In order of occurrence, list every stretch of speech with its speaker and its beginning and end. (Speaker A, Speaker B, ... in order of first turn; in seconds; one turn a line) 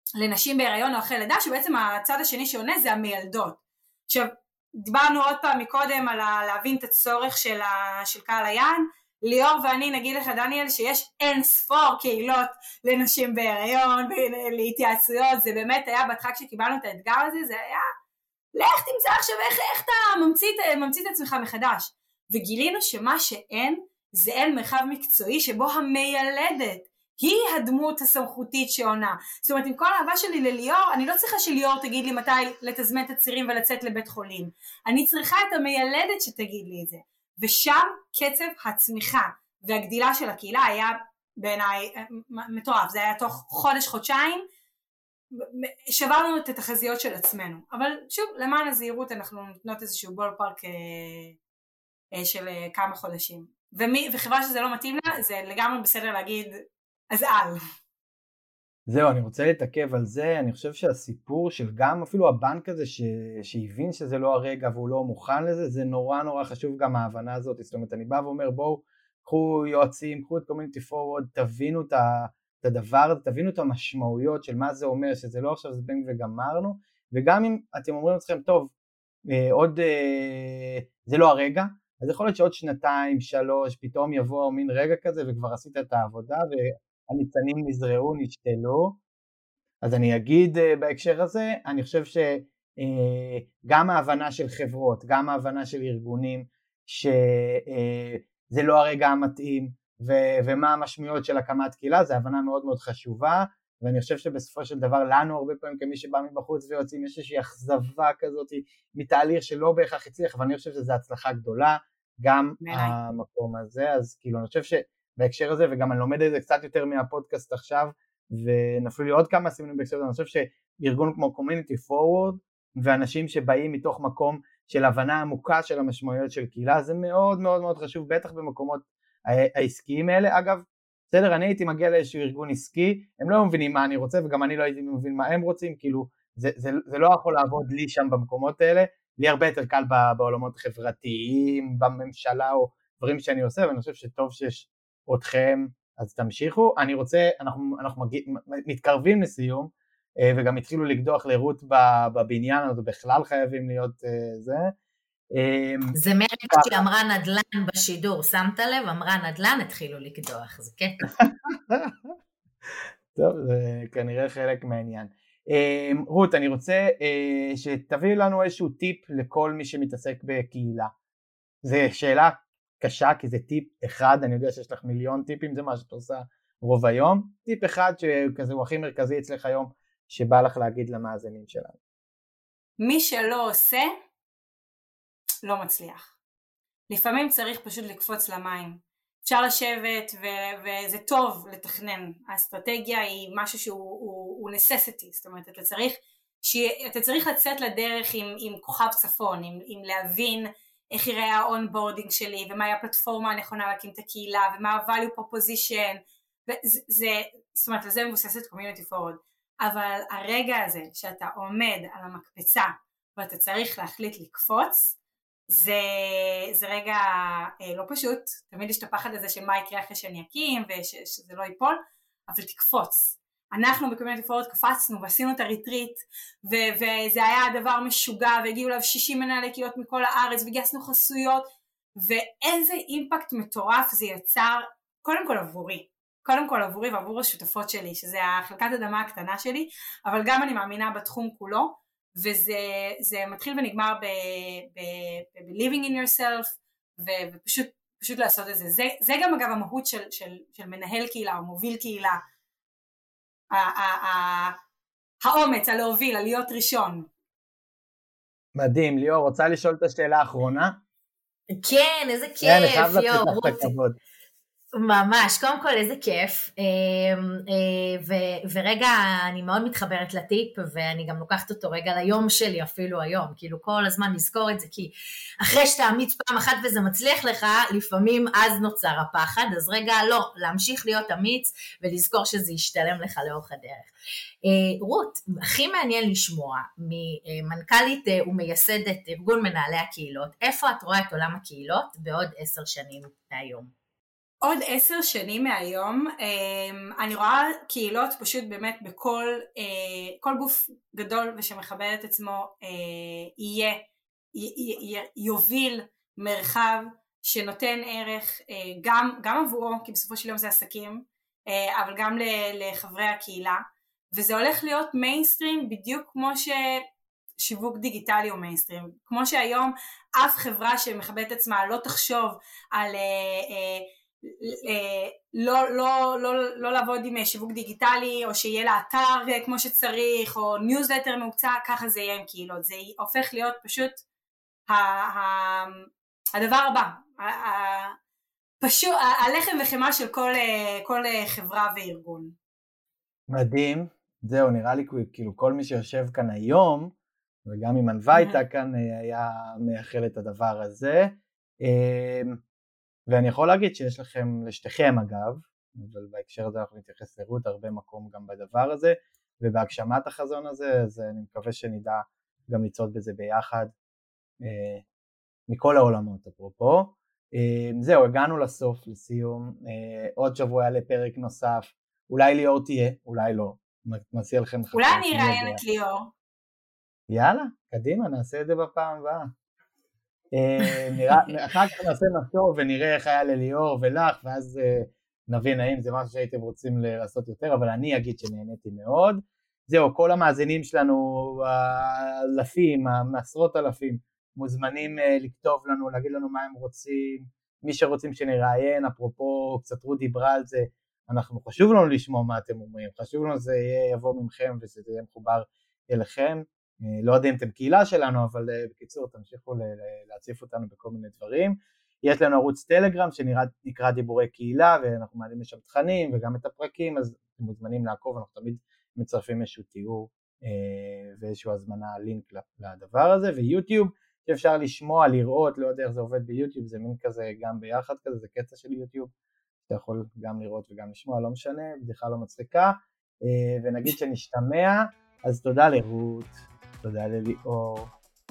Speaker A: 0.2-17.9
Speaker A: 18.5-44.4
Speaker A: 45.3-51.4
Speaker A: 52.1-56.5
Speaker A: 57.1-57.6
Speaker B: 58.9-78.7
Speaker B: 79.3-89.0
Speaker B: 89.8-154.7
Speaker A: 112.6-113.0
Speaker B: 155.3-155.9
Speaker C: 155.9-161.1
Speaker B: 156.5-156.8
Speaker B: 161.2-162.1
Speaker B: 163.1-170.9
Speaker B: 171.6-181.8
Speaker A: 182.8-183.9
Speaker A: 185.4-186.1
Speaker A: 186.9-214.9
Speaker A: 215.5-252.2
Speaker A: 253.5-254.6
Speaker A: 255.2-257.1
Speaker B: 258.5-260.8
Speaker C: 261.5-263.7
Speaker B: 262.4-264.0
Speaker C: 264.7-283.9
Speaker C: 284.4-293.7
Speaker A: 294.4-316.8
Speaker A: 317.4-334.0
Speaker A: 334.7-337.9
Speaker A: 338.6-342.3
Speaker B: 343.3-346.9
Speaker B: 347.4-352.4
Speaker A: 348.1-348.4
Speaker B: 353.1-363.7
Speaker B: 364.4-364.8
Speaker B: 365.5-375.6
Speaker A: 374.7-376.1
Speaker B: 377.1-379.3
Speaker B: 380.3-429.1
Speaker B: 429.6-437.9